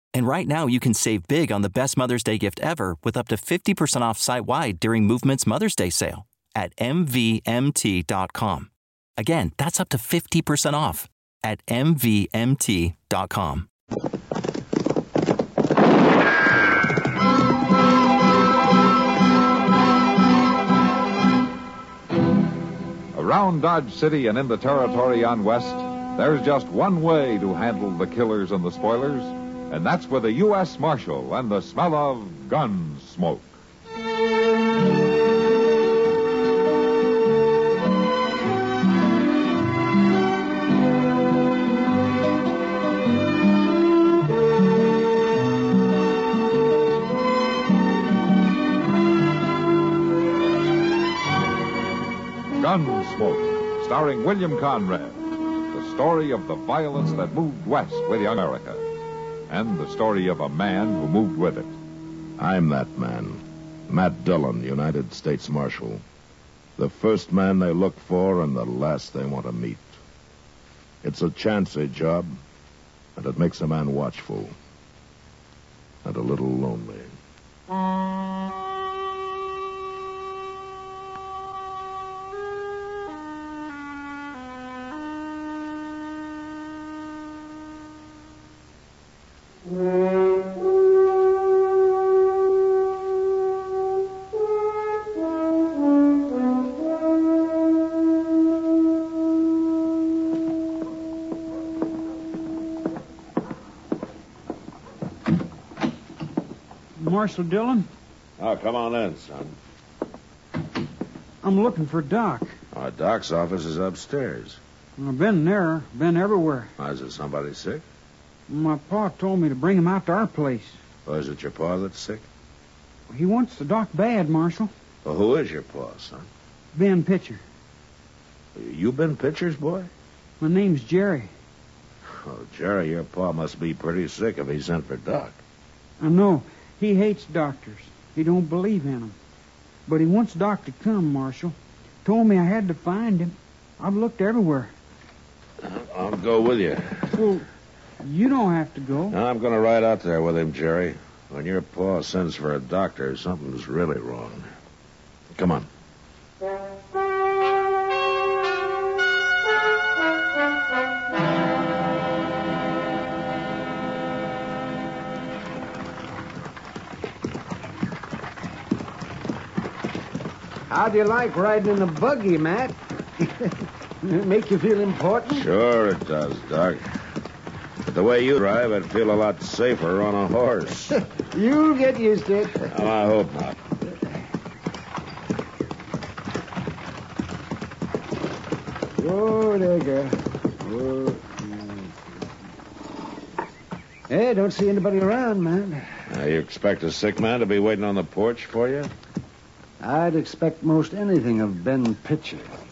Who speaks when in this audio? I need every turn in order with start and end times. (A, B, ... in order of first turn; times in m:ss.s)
0:00.1-0:13.7 A
0:23.1-0:33.5 B
0:52.6-0:55.2 B
0:55.7-0:58.9 B
0:59.5-1:01.7 B
1:02.4-1:06.0 C
1:06.8-1:10.0 C
1:11.0-1:12.4 C
1:13.2-1:14.6 C
1:16.0-1:17.1 C
1:47.0-1:47.9 D
1:48.4-1:49.6 C
1:51.4-1:52.6 D
1:52.7-1:54.6 C
1:55.0-1:56.7 D
1:56.8-1:57.8 C
1:58.5-2:00.8 D
2:01.0-2:02.3 C
2:03.1-2:04.7 D
2:05.0-2:06.3 C
2:06.8-2:07.4 D
2:08.6-2:09.9 C
2:10.4-2:11.3 D
2:12.2-2:15.4 C
2:16.0-2:19.2 D
2:19.9-2:24.7 D
2:25.6-2:27.1 C
2:27.2-2:27.4 D
2:28.0-2:29.2 D
2:29.1-2:34.5 C
2:35.4-2:35.7 C
2:50.7-2:55.5 E
2:55.3-2:56.8 C
2:57.9-3:01.0 C
3:01.0-3:02.7 E
3:02.7-3:03.6 C
3:09.0-3:12.0 E
3:14.1-3:15.9 E
3:16.1-3:18.9 C
3:19.8-3:22.5 E